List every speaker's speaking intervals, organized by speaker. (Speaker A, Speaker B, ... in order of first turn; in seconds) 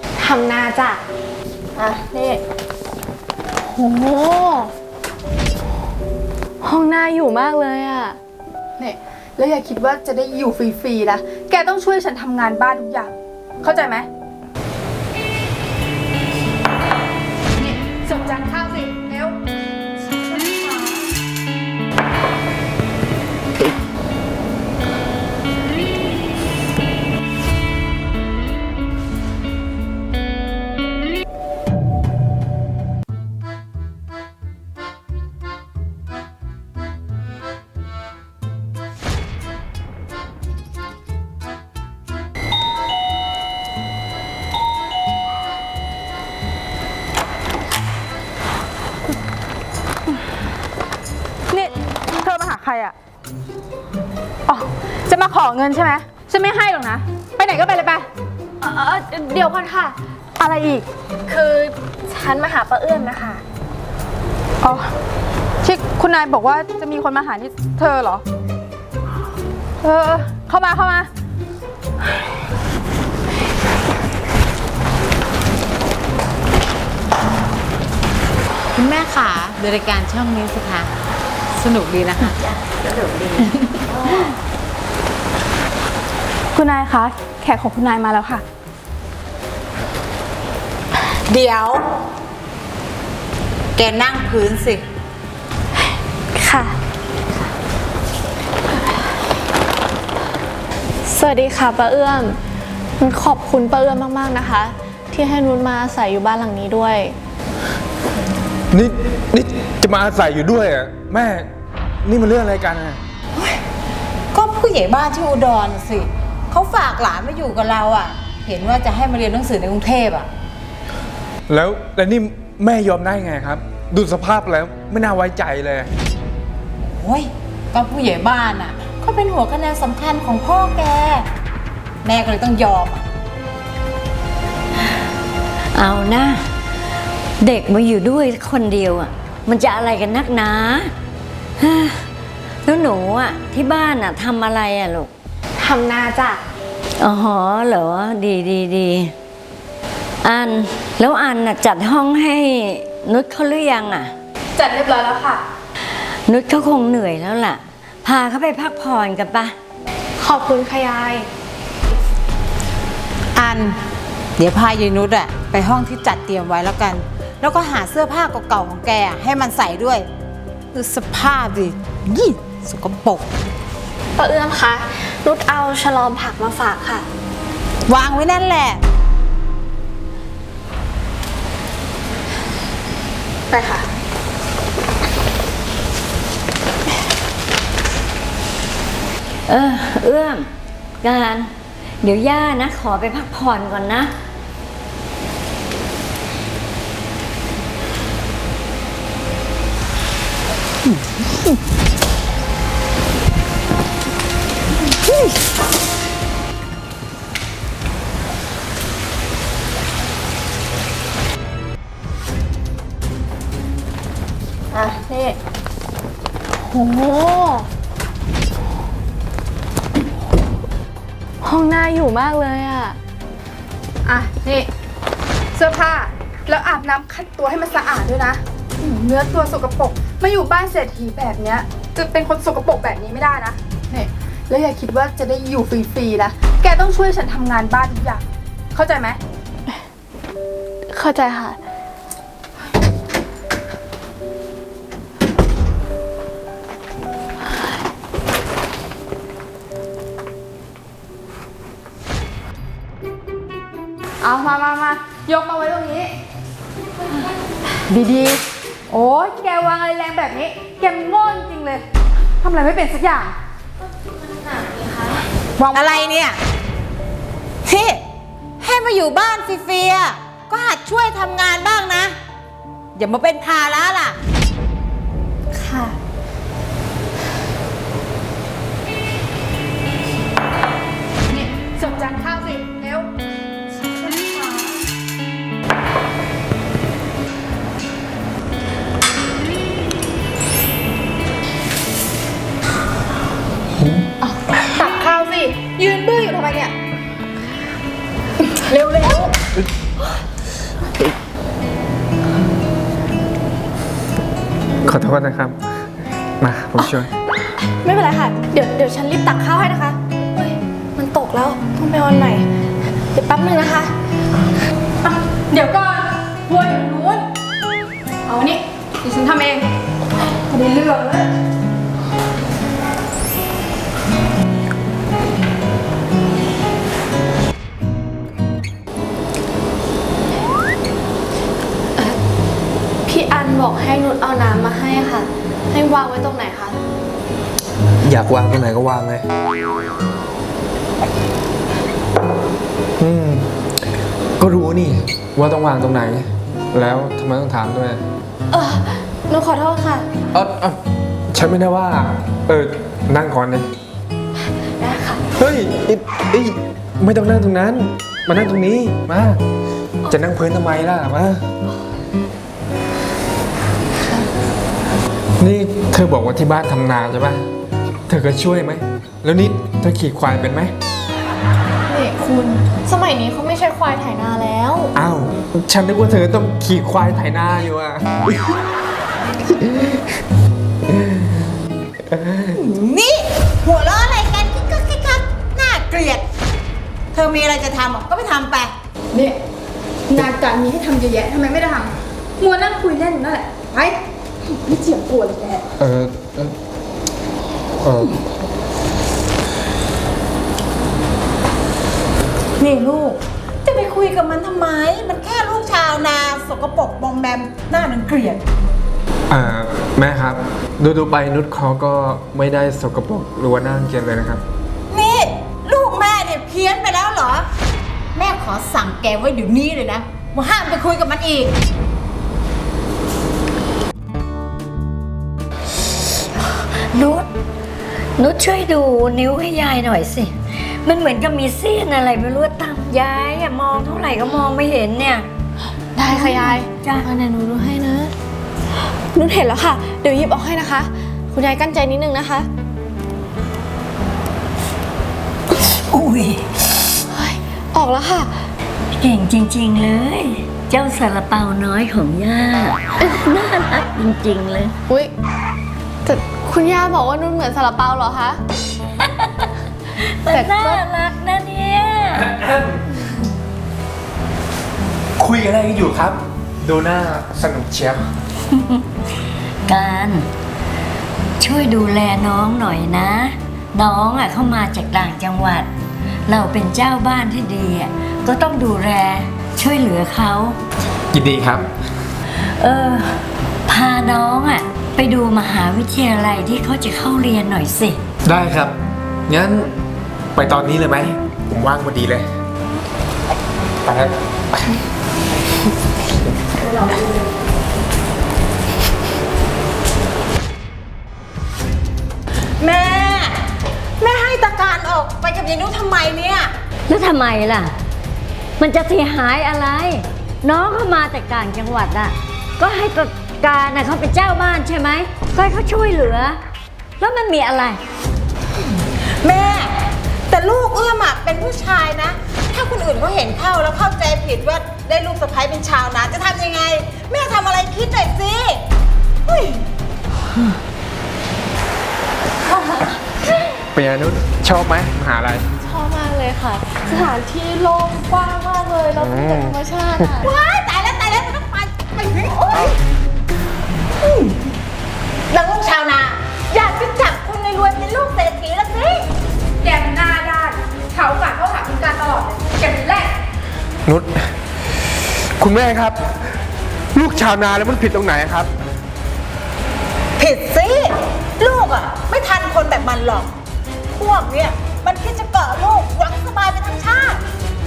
Speaker A: 0.2-1.0, 3.7-4.7, 6.6-8.2, 58.6-60.0, 61.3-63.4, 96.3-96.8, 101.1-102.4, 103.0-107.2, 145.6-146.4, 160.2-161.3, 174.2-177.1, 216.6-217.7, 221.4-223.0, 240.9-241.6, 264.2-265.2, 275.5-276.0, 307.7-312.4, 313.1-313.9, 333.1-336.8, 348.5-350.1, 354.8-355.2, 371.9-374.9, 435.9-438.1, 439.1-442.5, 447.1-448.3, 456.1-458.4, 460.3-460.8, 535.6-540.3
Speaker B: 1.8-2.4, 8.8-13.1, 13.6-14.1, 17.6-19.4, 20.3-21.1, 51.5-53.0, 54.5-58.1, 60.4-60.8, 64.6-64.9, 65.6-68.2, 69.8-71.1, 86.5-88.4, 154.6-155.4, 183.5-183.8, 214.7-215.4, 224.0-224.7, 225.5-239.2, 254.2-256.1, 257.9-261.8, 262.4-263.3, 265.6-266.0, 281.3-283.1, 284.0-284.8, 294.2-296.7, 298.7-299.3, 315.0-317.2, 318.2-319.7, 320.3-321.3, 389.1-389.4, 390.1-394.0, 394.6-395.6, 549.6-553.1
Speaker C: 78.8-80.9, 81.5-83.5, 91.3-91.8, 93.8-94.8, 114.3-120.3, 126.9-131.2, 132.0-133.0, 163.3-163.8, 164.4-170.1, 170.7-173.3, 177.9-178.8, 265.6-266.4, 267.6-268.0, 268.6-272.1, 272.9-274.2, 382.5-386.2, 387.1-388.7, 402.6-408.4, 414.9-417.5, 418.1-421.6, 502.6-503.4, 504.0-506.5, 519.2-519.8, 520.3-528.6, 529.3-529.6, 540.2-542.8, 544.0-544.3, 545.3-549.1, 560.2-563.3, 563.9-567.2
Speaker D: 108.7-111.5, 112.0-113.0, 121.5-125.9, 293.8-294.1, 304.8-305.6, 306.4-307.1, 338.0-339.2, 343.0-343.5, 344.4-348.0, 350.3-350.8, 351.3-353.7, 355.4-359.4, 360.1-361.4, 365.4-367.4, 368.1-370.7, 374.9-378.2, 379.5-380.0, 380.9-381.5, 382.1-382.6, 395.8-396.5, 397.8-398.2, 409.3-414.4, 462.1-463.0, 465.2-468.1, 481.1-481.7, 488.2-488.8, 489.3-489.7, 490.3-492.3, 493.8-494.8, 533.7-535.5, 539.0-540.1, 553.9-554.2, 555.4-556.0, 556.9-558.5
Speaker E: 135.7-136.4, 137.4-140.9, 141.6-142.0, 142.6-145.1, 147.0-149.1, 150.2-154.1, 156.3-159.5, 189.5-190.5, 191.0-194.1, 426.8-427.3, 428.2-435.3, 436.1-437.1, 445.7-446.4, 448.9-454.8, 459.0-462.3, 468.5-468.8, 469.6-470.3, 471.4-475.7, 476.3-480.6, 482.6-488.0, 506.9-507.7, 508.6-516.4, 517.0-517.8